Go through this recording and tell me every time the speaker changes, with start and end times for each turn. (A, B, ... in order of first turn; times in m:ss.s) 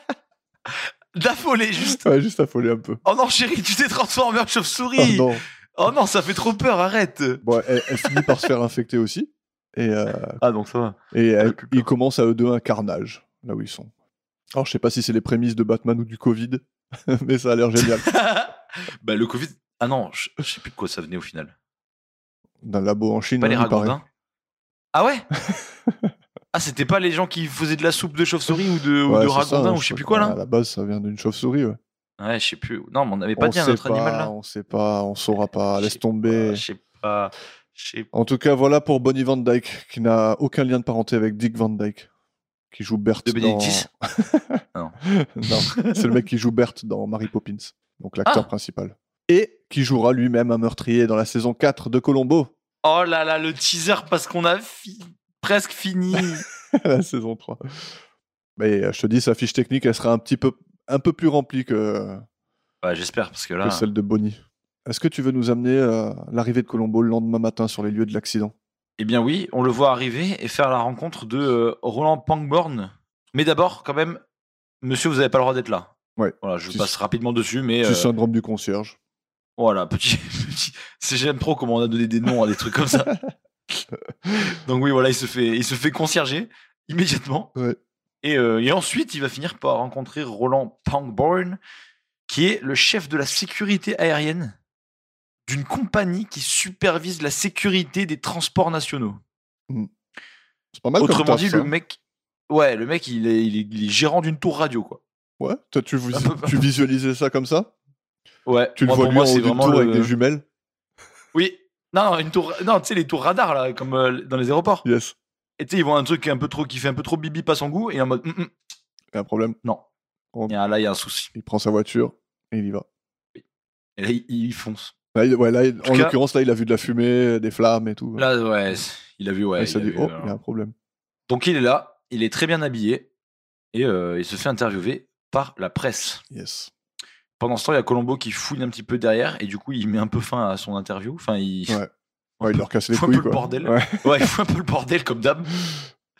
0:01.2-0:02.1 A
0:01.9-0:03.0 B
0:03.0-0:08.4 A
0:05.0-0:05.4 B
0:07.4-0:10.4 B
0:10.4-0:11.9 A
0:11.1-0:13.9 B
0:14.5-0:18.1 B
0:17.8-0:21.5 A
0:22.6-0:24.0 B
0:23.4-0:24.0 A
0:24.9-0:25.3 A
0:25.5-0:26.1 B
0:26.5-0:30.4 A
0:29.1-0:31.8 B
0:32.2-0:34.3 A
0:33.4-0:36.6 B
0:35.7-0:38.1 A
0:38.1-0:42.1 B
0:42.7-0:52.5 B
0:43.2-0:43.9 A
0:44.7-0:46.1 A
0:52.8-0:56.4 A
0:56.7-0:57.6 B
0:58.6-1:02.2 B
1:02.8-1:03.9 A
1:03.6-1:08.5 B
1:09.0-1:14.2 A
1:14.8-1:18.1 A
1:16.2-1:16.9 B
1:17.8-1:19.0 B
1:19.6-1:23.2 A
1:24.4-1:27.5 A
1:28.2-1:31.6 A
1:32.3-1:34.6 A
1:35.5-1:39.2 A
1:40.7-1:41.7 B
1:41.0-1:42.0 A
1:42.5-1:45.0 A
1:45.4-1:47.7 B
1:46.1-1:46.6 A
1:48.5-1:50.1 A
1:48.8-1:50.4 B
1:51.3-1:54.8 A
1:54.8-1:55.2 B
1:55.6-1:58.5 A
1:59.1-1:59.6 B
2:00.5-2:01.3 A
2:01.3-2:02.9 B
2:04.0-2:04.9 A
2:05.1-2:08.3 B
2:05.8-2:06.2 A
2:08.2-2:10.4 A
2:09.6-2:10.7 B
2:11.3-2:13.1 A
2:13.7-2:16.2 A
2:16.3-2:16.7 B
2:17.4-2:21.8 A
2:22.4-2:25.6 A
2:22.4-2:24.3 B